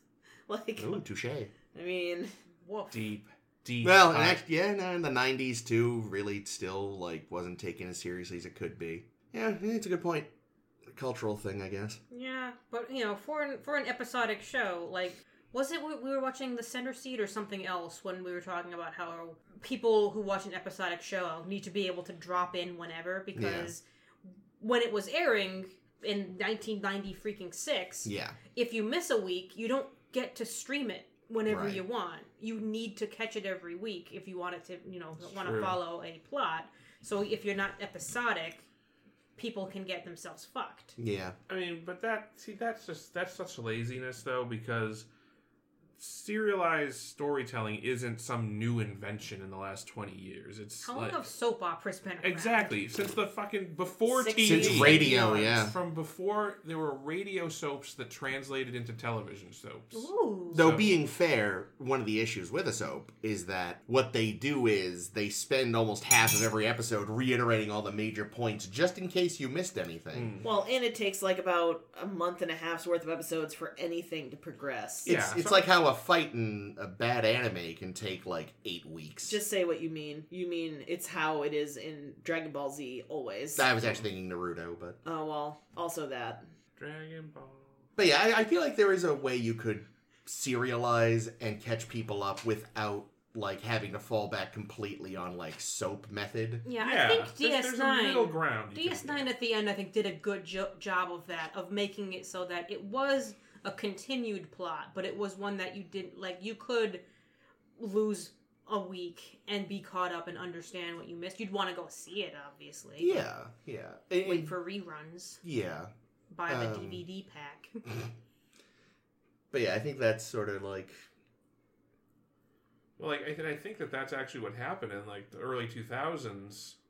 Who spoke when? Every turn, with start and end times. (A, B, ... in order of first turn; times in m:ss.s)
0:00.5-0:01.0 A
0:00.8-0:01.5 B
0:01.7-0:02.3 A
0:02.6-0:02.9 C
0:02.9-0:04.4 D
0:03.8-0:10.3 B
0:10.9-0:12.0 B
0:12.1-0:23.8 C
0:23.3-0:23.7 B
0:24.6-0:38.7 C
0:28.0-0:28.4 B
0:31.5-0:31.8 B
0:35.3-0:35.8 D
0:39.4-0:41.0 C
0:41.0-0:41.4 B
0:41.5-0:45.1 D
0:46.0-0:51.2 D
0:50.8-0:52.7 C
0:52.2-1:00.9 D
0:54.1-0:55.1 A
0:54.4-0:55.7 B
0:54.8-0:55.5 C
0:59.9-1:00.7 C
1:00.5-1:10.3 B
1:10.1-1:10.4 D
1:10.4-1:15.1 A
1:15.0-1:15.4 D
1:15.0-1:19.4 B
1:19.2-1:23.7 A
1:23.6-1:25.0 B
1:25.0-1:26.4 A
1:26.8-1:27.9 D
1:28.0-1:36.6 B
1:36.6-1:47.0 C
1:36.8-1:39.3 D
1:47.8-1:53.2 C
1:53.0-1:54.5 B
1:54.2-1:55.4 C
1:55.4-1:55.9 B
1:56.3-1:57.8 C
1:56.5-1:57.0 B
1:59.5-2:01.0 B
2:03.0-2:06.8 D